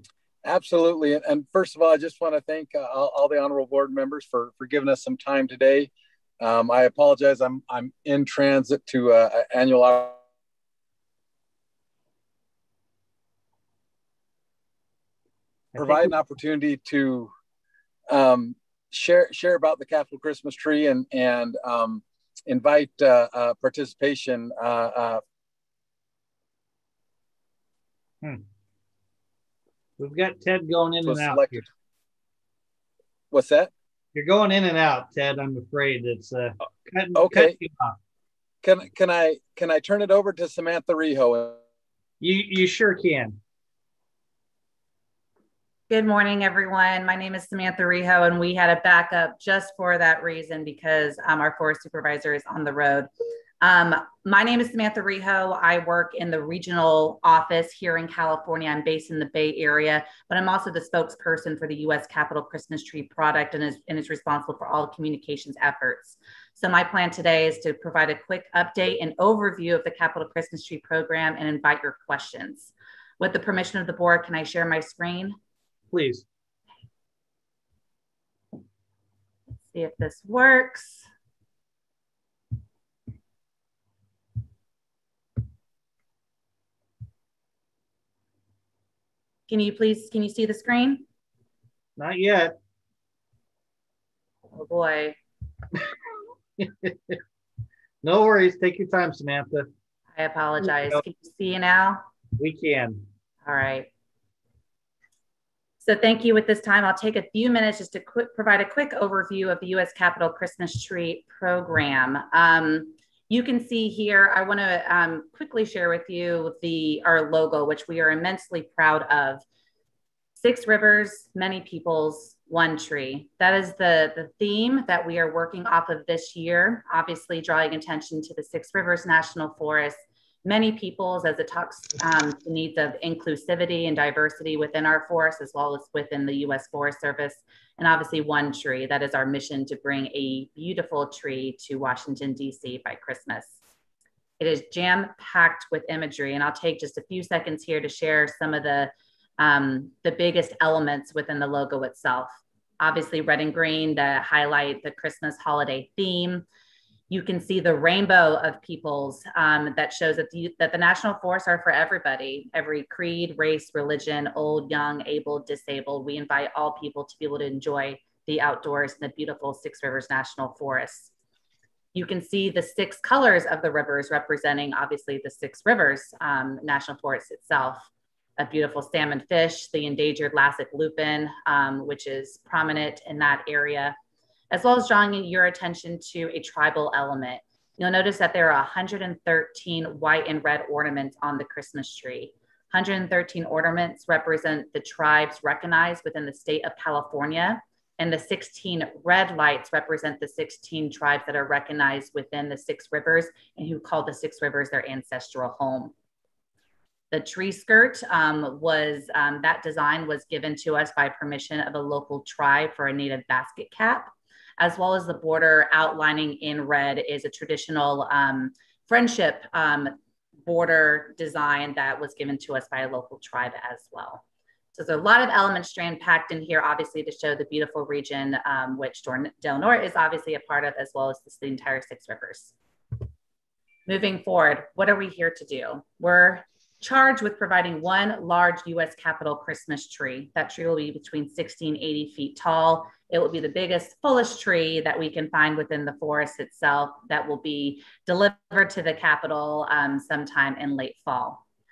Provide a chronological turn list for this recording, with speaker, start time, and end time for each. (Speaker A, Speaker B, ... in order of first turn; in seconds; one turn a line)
Speaker A: 0.4-10.2
Speaker B: 15.7-16.1
Speaker A: 15.8-17.3
Speaker A: 18.1-25.2
Speaker B: 30.0-31.6
Speaker A: 31.0-31.6
Speaker A: 33.3-33.7
Speaker B: 34.1-38.0
Speaker A: 37.1-37.5
Speaker A: 38.6-41.6
Speaker B: 42.2-43.4
Speaker C: 45.9-75.3
Speaker B: 75.9-76.2
Speaker C: 79.7-81.0
Speaker C: 89.5-91.0
Speaker B: 92.0-92.5
Speaker C: 94.5-95.2
Speaker B: 96.6-97.2
Speaker B: 98.0-99.7
Speaker C: 100.1-102.0
Speaker B: 100.6-101.0
Speaker B: 102.4-103.0
Speaker C: 103.4-103.9
Speaker C: 105.8-119.4
Speaker C: 120.4-143.6
Speaker C: 144.4-156.4
Speaker C: 157.1-171.1
Speaker C: 171.9-183.9
Speaker C: 184.5-205.9
Speaker C: 207.1-224.2
Speaker C: 224.7-232.5
Speaker C: 233.9-251.4